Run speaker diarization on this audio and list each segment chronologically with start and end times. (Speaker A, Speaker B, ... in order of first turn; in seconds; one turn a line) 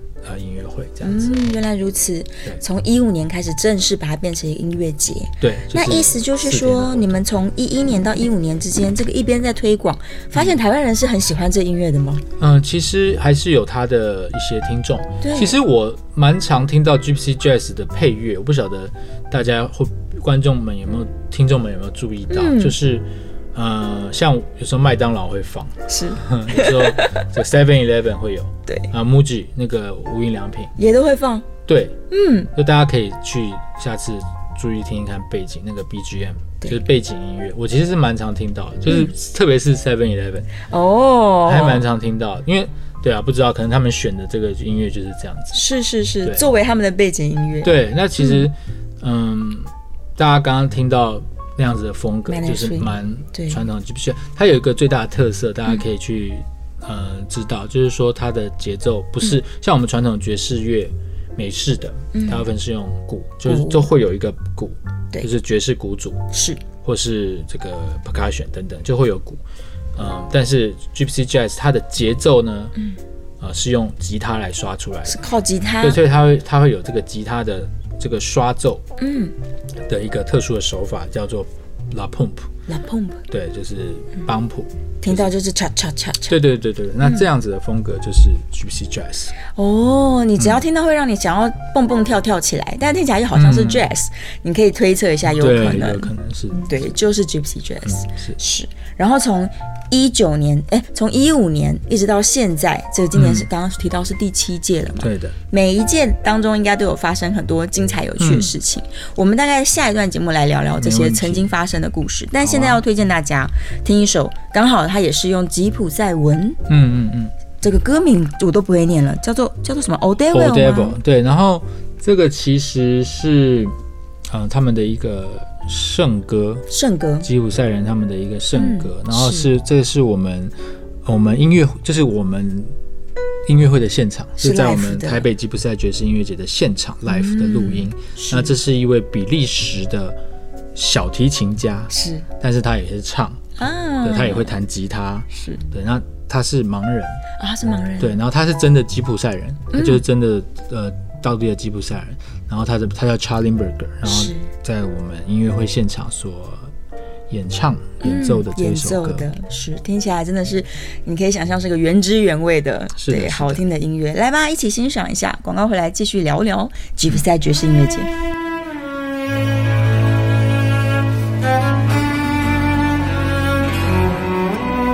Speaker A: 0.2-1.4
Speaker B: 1.0-12.2
Speaker A: 5.4-7.1
Speaker A: 12.4-30.7
Speaker B: 15.2-15.6
Speaker B: 22.3-22.8
Speaker B: 25.9-27.2
Speaker B: 30.8-31.5
Speaker A: 31.7-32.0
Speaker B: 32.1-32.5
Speaker A: 32.5-40.5
Speaker B: 38.9-39.1
Speaker B: 40.6-41.8
Speaker A: 41.5-45.6
Speaker B: 45.5-48.5
Speaker A: 47.6-66.3
Speaker B: 52.3-53.6
Speaker B: 62.1-62.5
Speaker B: 63.5-63.9
Speaker B: 66.3-66.6
Speaker A: 66.8-69.4
Speaker A: 70.0-72.8
Speaker A: 73.4-75.2
Speaker B: 75.1-76.0
Speaker A: 75.8-78.8
Speaker B: 79.0-79.3
Speaker A: 79.9-82.5
Speaker B: 82.7-83.2
Speaker A: 83.3-85.3
Speaker B: 85.0-86.4
Speaker A: 86.3-89.3
Speaker B: 89.5-96.1
Speaker A: 90.4-90.6
Speaker A: 93.3-93.9
Speaker A: 95.3-96.8
Speaker B: 96.7-116.6
Speaker A: 97.9-98.4
Speaker A: 103.1-103.5
Speaker A: 105.0-105.4
Speaker A: 108.2-108.5
Speaker A: 110.8-111.5
Speaker A: 112.4-112.8
Speaker A: 116.7-117.3
Speaker B: 117.6-121.0
Speaker A: 120.3-123.8
Speaker A: 124.3-126.7
Speaker B: 126.7-127.3
Speaker A: 127.2-130.5
Speaker B: 128.6-129.5
Speaker A: 131.1-132.7
Speaker A: 133.5-140.2
Speaker B: 134.4-135.3
Speaker B: 137.1-138.6
Speaker A: 140.7-143.4
Speaker B: 141.9-142.3
Speaker B: 143.6-144.5
Speaker A: 144.0-147.2
Speaker B: 145.3-145.6
Speaker B: 147.4-148.2
Speaker A: 148.0-156.7
Speaker B: 149.7-150.0
Speaker B: 154.1-154.5
Speaker A: 157.3-159.3
Speaker B: 158.0-168.1
Speaker A: 163.0-163.6